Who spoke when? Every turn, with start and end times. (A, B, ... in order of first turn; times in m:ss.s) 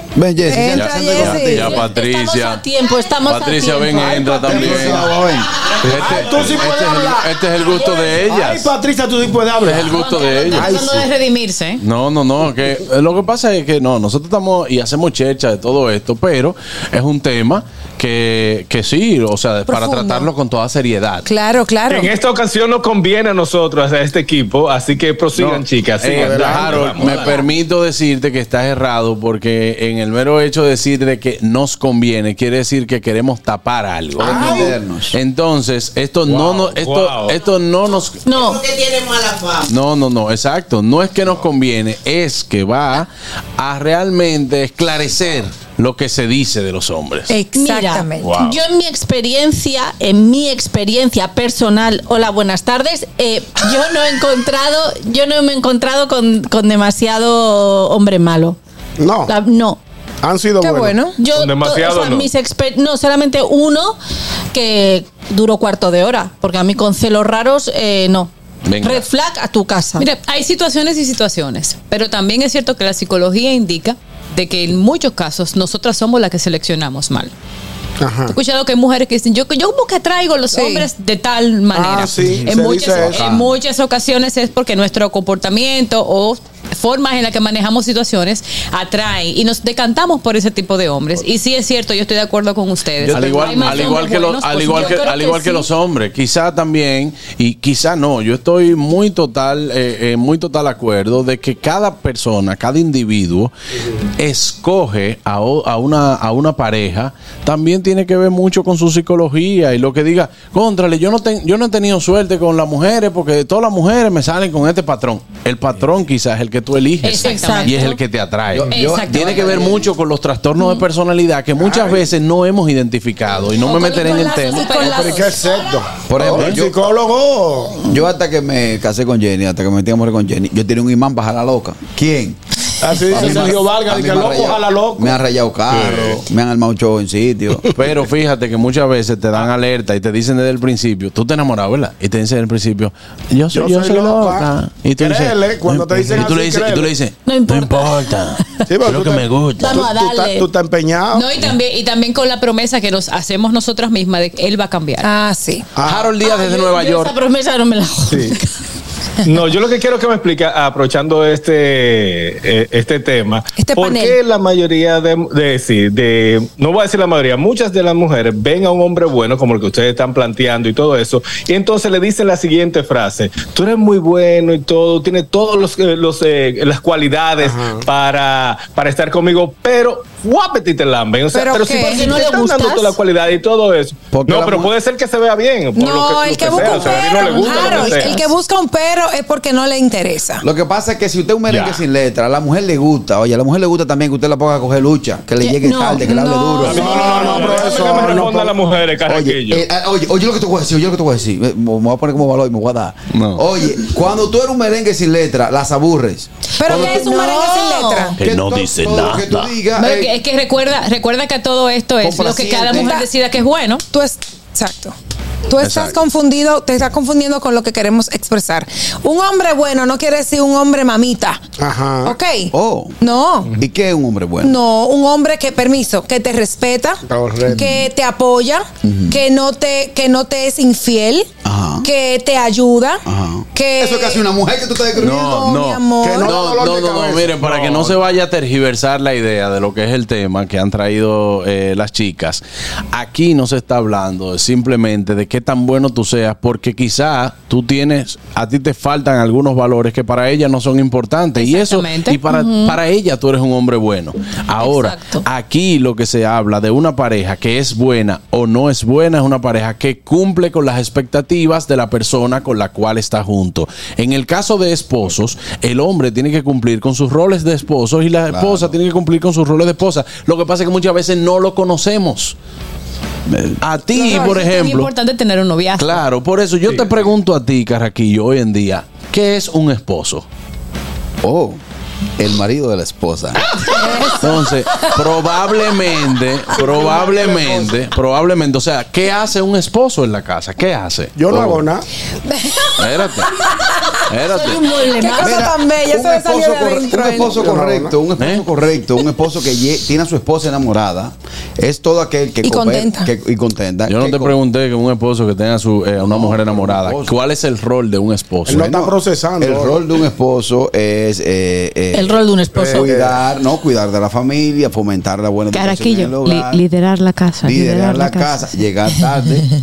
0:00.2-0:01.8 A
0:00.5-0:01.8 B
0:00.6-0:02.6 C
0:01.7-0:04.4 D
0:03.2-0:05.2 C
0:04.0-0:05.2 E
0:04.4-0:06.2 A
0:05.8-0:08.7 C
0:05.8-0:11.0 E
0:09.6-0:10.9 C
0:09.8-0:11.8 F
0:11.8-0:21.3 C
0:19.7-0:20.3 B
0:21.3-0:22.1 B
0:21.9-0:27.3 G
0:25.4-0:38.4 C
0:26.0-0:27.0 E
0:27.2-0:27.4 B
0:34.2-0:35.2 A
0:34.2-0:34.7 E
0:36.3-0:37.4 G
0:38.2-0:38.7 D
0:39.7-0:47.3 C
0:47.3-0:48.3 B
0:47.5-0:58.6 D
0:48.2-0:48.6 G
0:59.0-0:59.3 E
0:59.3-0:59.8 D
1:00.2-1:01.0 E
1:00.6-1:01.2 B
1:01.2-1:04.0 D
1:01.2-1:02.3 G
1:04.5-1:08.3 D
1:08.6-1:09.1 C
1:08.8-1:10.0 D
1:10.0-1:17.3 F
1:18.0-1:18.4 E
1:18.3-1:35.6 F
1:20.5-1:20.9 B
1:21.7-1:23.2 E
1:23.2-1:23.5 C
1:33.0-1:43.5 C
1:33.4-1:34.0 D
1:34.7-1:35.2 D
1:44.2-2:04.8 C
1:57.0-1:58.0 F
1:57.2-1:57.9 D
1:58.5-1:59.9 A
1:58.7-1:59.5 F
2:01.6-2:02.0 E
2:03.6-2:05.2 F
2:03.6-2:05.4 B
2:04.8-2:07.9 E
2:06.1-2:06.9 A
2:06.2-2:06.6 C
2:07.8-2:12.4 A
2:12.8-2:15.2 E
2:13.1-2:17.7 A
2:15.7-2:16.2 G
2:17.7-2:29.8 C
2:23.5-2:26.9 E
2:27.2-2:28.1 D
2:28.7-2:31.3 E
2:29.6-2:30.5 D
2:31.1-2:35.1 F
2:35.0-2:35.7 B
2:35.8-2:36.1 E
2:35.8-2:37.1 C
2:36.2-2:38.4 D
2:38.1-2:38.4 G
2:39.2-3:08.3 G
2:43.6-2:44.2 B
2:57.4-2:57.8 E
3:01.3-3:02.1 B
3:01.8-3:03.0 D
3:04.1-3:04.7 A
3:05.8-3:10.4 B
3:06.5-3:07.7 E
3:10.4-3:17.5 A
3:11.5-3:11.8 G
3:15.4-3:16.2 D
3:16.1-3:17.2 B
3:16.6-3:19.6 G
3:16.7-3:18.5 E
3:19.1-3:27.1 A
3:23.1-3:23.4 C
3:26.6-3:28.2 B
3:26.7-3:28.1 D
3:28.2-3:29.5 C
3:28.2-3:30.1 A
3:29.8-3:33.8 F
3:32.0-3:33.0 A
3:32.7-3:33.1 B
3:33.9-3:35.0 B
3:35.5-3:41.4 B
3:35.6-3:36.0 C
3:41.6-3:42.2 E
3:42.0-3:43.5 B
3:42.5-3:43.0 A
3:43.5-3:44.6 A
3:44.4-3:51.3 B
3:47.1-3:47.8 E
3:48.8-3:49.2 A
3:51.4-3:51.9 A
3:51.8-3:53.0 B
3:53.1-3:55.4 A
3:53.6-3:54.2 B
3:55.0-4:32.4 C
3:55.0-3:56.4 B
3:56.0-3:57.9 E
4:11.4-4:12.2 F
4:12.3-4:12.8 D
4:14.6-4:15.2 D
4:28.3-4:28.8 A
4:33.3-4:33.6 A
4:33.6-4:34.9 C
4:34.0-4:34.5 B
4:34.1-4:36.0 F
4:35.8-4:40.2 C
4:41.2-4:41.6 A
4:42.2-4:43.4 A
4:43.8-4:44.5 B
4:44.2-4:51.6 C
4:46.6-4:47.8 A
4:46.8-4:47.6 E
4:51.2-4:51.9 E
4:52.3-4:52.7 B
4:52.8-4:53.4 C
4:54.1-4:54.6 C
4:54.4-4:55.5 D
4:54.9-4:57.4 B
4:55.2-5:04.4 A
4:57.3-4:58.0 E
4:58.2-4:58.5 C
5:02.4-5:03.1 B
5:03.9-5:08.7 C
5:06.0-5:07.2 A
5:08.5-5:09.8 E
5:08.5-5:16.6 A
5:11.9-5:12.9 D
5:12.5-5:13.2 E
5:15.5-5:18.5 F
5:17.4-5:19.5 A